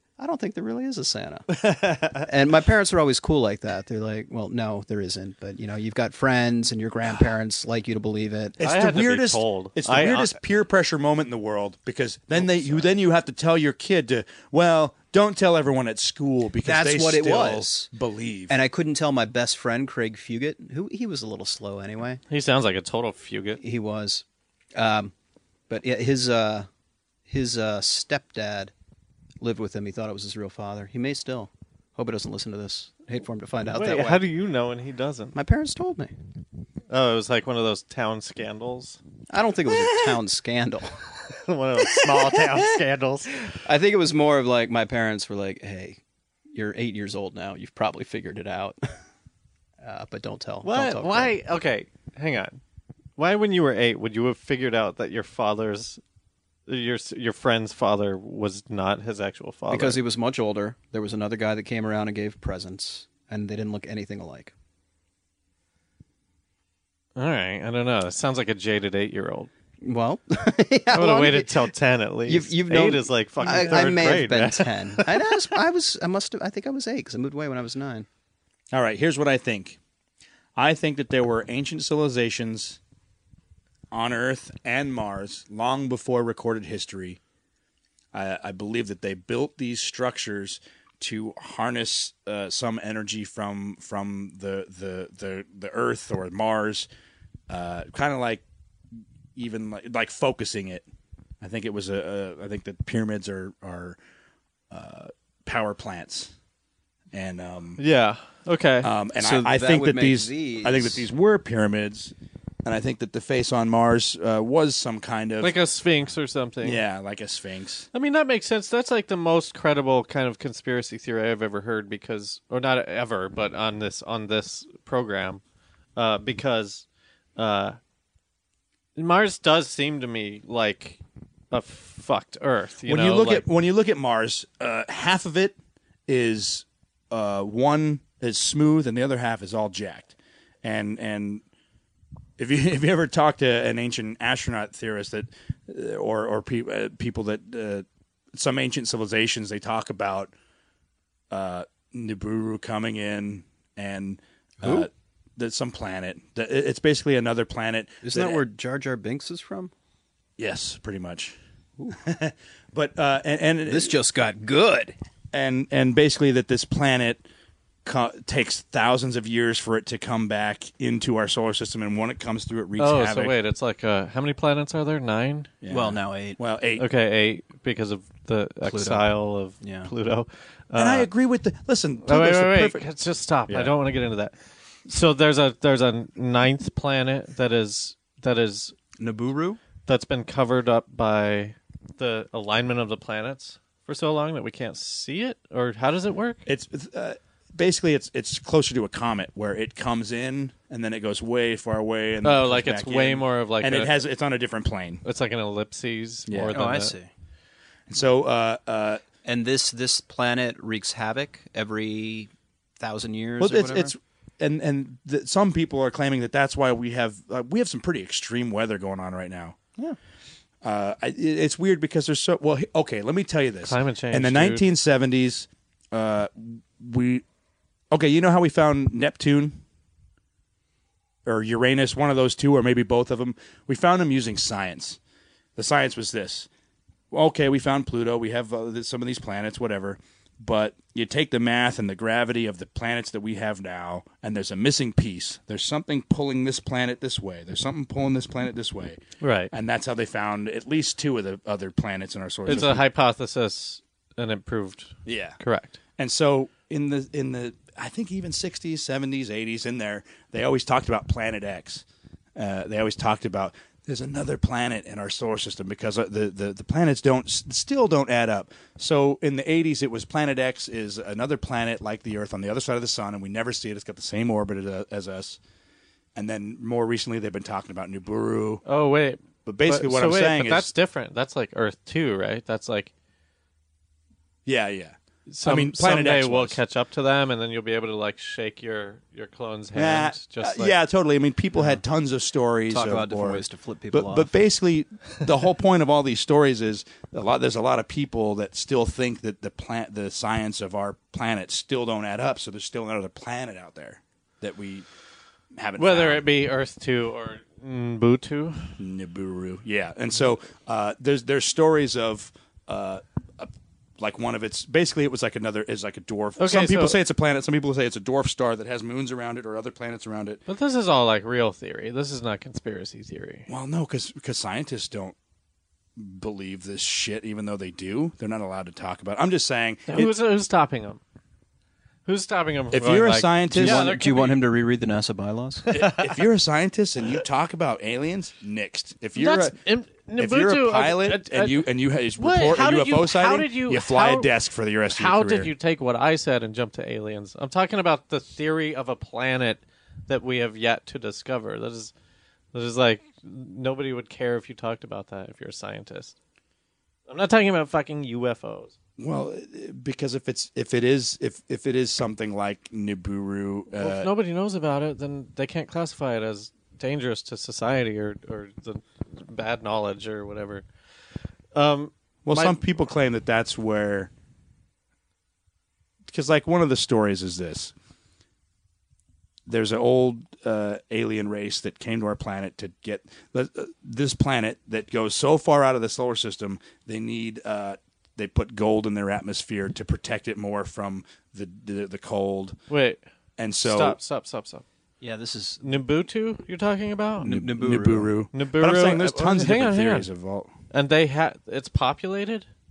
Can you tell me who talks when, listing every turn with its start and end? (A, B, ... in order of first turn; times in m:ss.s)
0:00.2-0:08.6 A
0:01.6-0:02.2 B
0:08.6-0:18.6 C
0:08.6-0:10.4 B
0:12.4-0:12.8 A
0:16.6-0:17.9 A
0:18.5-0:22.2 A
0:22.3-0:23.6 B
0:23.6-0:25.1 A
0:25.7-0:26.7 A
0:27.3-0:28.7 A
0:29.4-0:34.2 A
0:33.7-0:35.4 B
0:35.4-0:36.1 A
0:36.9-0:39.0 B
0:39.3-0:41.0 A
0:41.3-0:43.4 B
0:43.5-0:46.0 A
0:46.5-0:48.8 A
0:49.8-0:51.4 A
0:50.6-0:52.6 B
0:53.2-0:56.0 B
0:56.7-1:00.0 B
0:59.7-1:04.5 A
1:07.2-1:09.5 B
1:09.8-1:11.7 A
1:10.9-1:15.4 B
1:12.3-1:18.1 A
1:18.7-1:19.8 C
1:20.6-1:22.8 C
1:23.9-1:27.2 C
1:28.1-1:36.9 C
1:37.5-1:38.4 C
1:39.4-1:40.9 C
1:41.4-1:44.0 C
1:44.7-1:46.3 C
1:47.1-1:47.8 C
1:47.8-1:48.9 B
1:48.8-1:55.6 C
1:49.2-1:51.1 A
1:55.4-1:56.8 B
1:56.6-1:57.9 C
1:57.9-2:05.4 B
2:06.0-2:06.8 B
2:07.4-2:07.8 B
2:09.0-2:11.0 B
2:11.5-2:13.4 B
2:12.9-2:15.6 C
2:16.1-2:21.4 C
2:22.4-2:30.3 C
2:31.3-2:38.4 C
2:34.6-2:34.9 A
2:38.0-2:39.7 A
2:40.4-2:41.4 C
2:41.9-2:44.0 C
2:43.7-2:45.0 A
2:45.3-2:47.3 C
2:47.8-2:53.4 C
2:52.8-2:55.5 B
2:55.6-2:56.9 C
2:55.7-2:56.4 A
2:56.8-3:01.1 B
2:58.6-2:59.1 A
2:59.6-2:59.9 A
3:00.8-3:02.9 C
3:02.1-3:04.3 B
3:03.5-3:03.7 C
3:04.9-3:08.8 B
3:09.0-3:09.6 A
3:09.9-3:16.4 B
3:16.5-3:25.0 C
3:22.2-3:23.9 B
3:25.0-3:26.9 B
3:26.3-3:26.6 C
3:26.5-3:27.1 A
3:27.9-3:29.0 C
3:29.2-3:33.9 A
3:33.4-3:39.6 C
3:40.6-3:47.2 C
3:43.7-3:44.6 B
3:47.9-3:49.6 C
3:51.3-3:55.0 C
3:55.6-3:56.5 C
3:57.1-4:12.8 C
4:09.2-4:09.5 B
4:12.5-4:15.8 B
4:15.1-4:15.4 C
4:16.0-4:35.4 C
4:36.2-4:38.6 C
4:38.6-4:42.9 B
4:39.5-4:40.7 C
4:44.5-4:46.6 C
4:45.3-4:50.8 B
4:49.7-5:04.9 C
4:52.7-4:54.3 A
5:05.6-5:06.2 C
5:05.8-5:08.7 B
5:08.8-5:20.4 C
5:16.4-5:17.0 B
5:20.5-5:23.5 B
5:23.5-5:25.2 C
5:26.0-5:30.1 C
5:29.9-5:31.0 B
5:32.1-5:34.4 B
5:32.7-5:33.9 C
5:33.5-5:35.7 A
5:35.7-5:36.1 B
5:35.7-5:39.6 C
5:39.2-5:41.7 B
5:40.2-5:45.5 C
5:42.2-5:44.3 B
5:44.9-5:51.9 B
5:52.5-5:56.2 B
5:57.1-5:58.8 B
5:59.0-6:04.1 C
6:03.8-6:10.6 B
6:11.5-6:12.6 B
6:12.3-6:14.1 C
6:16.1-6:17.7 C
6:19.5-6:32.6 C
6:32.7-6:33.0 B
6:33.4-6:34.0 C
6:33.6-6:34.6 B
6:35.0-6:35.7 A
6:35.6-6:37.4 B
6:37.2-6:38.1 A
6:37.2-6:40.5 C
6:38.3-6:40.1 B
6:40.7-6:42.5 B